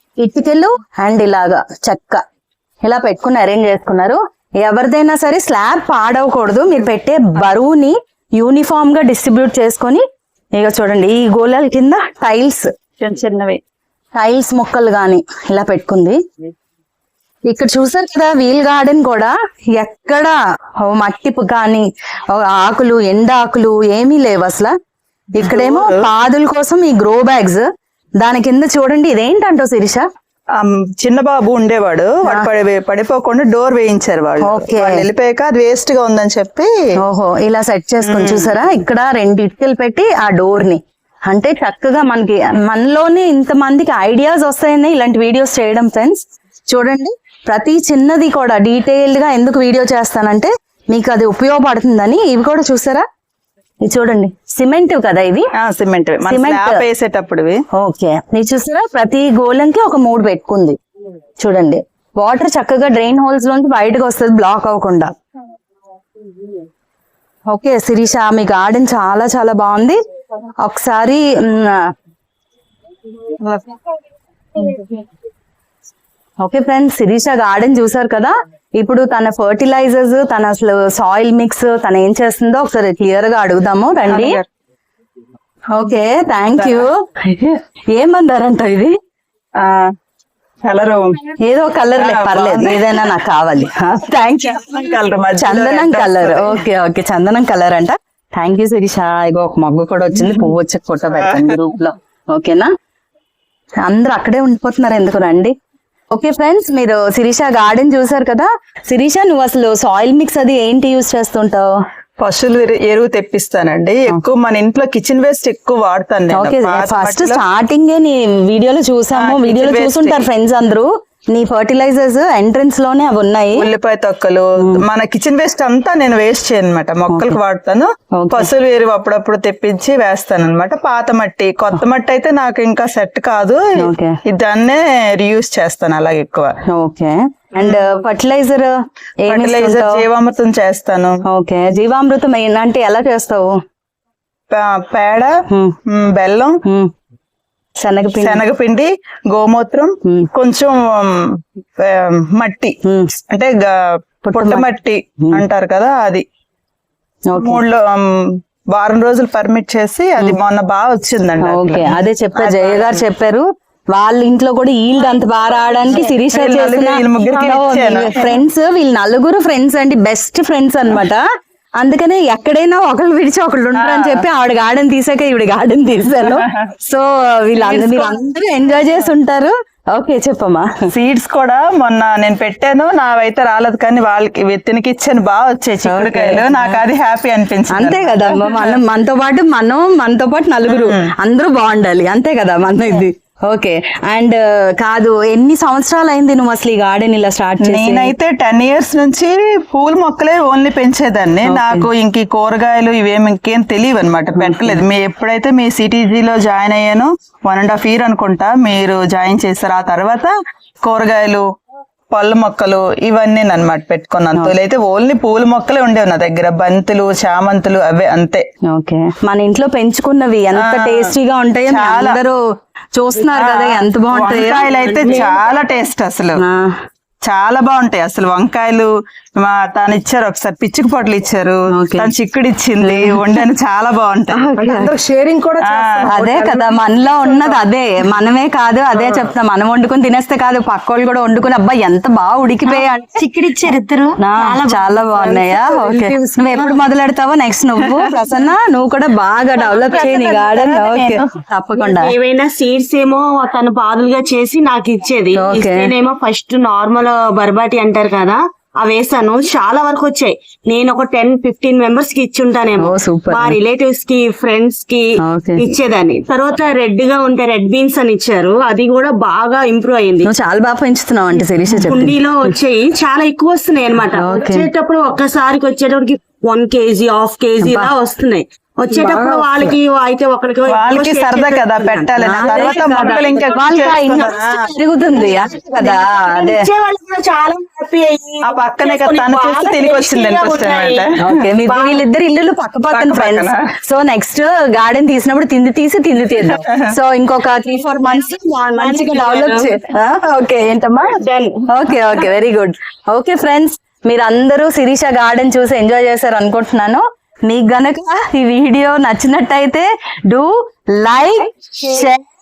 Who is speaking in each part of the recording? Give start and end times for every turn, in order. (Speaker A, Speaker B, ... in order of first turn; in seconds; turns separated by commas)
Speaker A: 0.2-2.2, Speaker A: 2.8-10.0, Speaker A: 10.6-12.7, Speaker B: 13.0-13.6, Speaker A: 14.2-16.2, Speaker A: 17.5-24.8, Speaker A: 25.4-27.7, Speaker B: 25.4-26.1, Speaker A: 28.2-30.1, Speaker B: 30.5-36.7, Speaker A: 34.4-35.1, Speaker A: 37.0-53.0, Speaker B: 38.0-38.6, Speaker A: 53.8-55.5, Speaker B: 55.6-57.6, Speaker A: 56.3-56.8, Speaker A: 57.7-60.8, Speaker A: 61.4-65.1, Speaker A: 67.5-70.0, Speaker A: 70.6-71.9, Speaker B: 73.4-73.7, Speaker A: 76.4-84.4, Speaker B: 84.1-84.5, Speaker A: 85.7-89.0, Speaker B: 86.6-86.9, Speaker B: 89.6-89.9, Speaker B: 90.6-91.2, Speaker A: 91.4-94.8, Speaker B: 92.0-93.2, Speaker B: 94.4-96.6, Speaker A: 95.4-102.7, Speaker B: 100.2-100.5, Speaker B: 101.1-101.6, Speaker A: 103.8-105.5, Speaker A: 106.1-111.7, Speaker B: 112.2-117.4, Speaker A: 116.3-123.7, Speaker B: 119.2-120.3, Speaker B: 123.5-136.5, Speaker A: 127.1-127.4, Speaker A: 128.1-128.5, Speaker A: 133.8-134.2, Speaker A: 136.7-138.7, Speaker B: 137.6-138.0, Speaker A: 139.2-140.1, Speaker B: 139.3-141.2, Speaker A: 141.3-143.6, Speaker B: 144.5-146.6, Speaker A: 145.5-145.8, Speaker A: 146.7-146.9, Speaker A: 147.8-148.4, Speaker B: 148.2-152.8, Speaker A: 152.8-153.1, Speaker B: 153.3-153.8, Speaker A: 154.2-154.7, Speaker B: 154.3-156.2, Speaker A: 157.3-157.6, Speaker B: 157.4-163.0, Speaker A: 161.4-171.3, Speaker B: 166.1-168.3, Speaker A: 171.8-180.9, Speaker B: 173.8-174.2, Speaker B: 176.2-176.7, Speaker B: 177.6-178.3, Speaker B: 180.9-188.8, Speaker A: 185.8-186.8, Speaker A: 187.7-198.1, Speaker B: 190.7-191.1, Speaker B: 197.6-211.4, Speaker A: 201.4-201.9, Speaker A: 204.4-204.8, Speaker B: 212.1-218.4, Speaker A: 218.7-222.4, Speaker B: 220.6-221.2, Speaker B: 221.7-222.2, Speaker A: 222.9-224.7, Speaker B: 223.3-226.4, Speaker C: 224.6-225.4, Speaker A: 226.4-226.8, Speaker B: 227.2-234.5, Speaker A: 231.7-232.1, Speaker A: 232.8-233.4, Speaker A: 234.4-234.9, Speaker C: 234.6-236.8, Speaker B: 235.6-236.1, Speaker A: 236.1-243.2, Speaker C: 239.0-239.3, Speaker C: 242.7-246.8, Speaker A: 244.2-252.1, Speaker C: 249.6-270.3, Speaker A: 255.3-255.9, Speaker A: 262.8-263.6, Speaker A: 265.2-265.7, Speaker A: 270.2-272.5, Speaker C: 271.3-283.6, Speaker A: 274.2-274.7, Speaker A: 277.6-277.9, Speaker A: 278.9-279.7, Speaker B: 280.7-284.7, Speaker A: 282.2-286.7, Speaker C: 285.1-292.0, Speaker B: 288.4-291.2, Speaker A: 291.2-312.3, Speaker B: 292.9-293.7, Speaker B: 296.6-296.9, Speaker C: 298.4-299.9, Speaker C: 301.1-302.3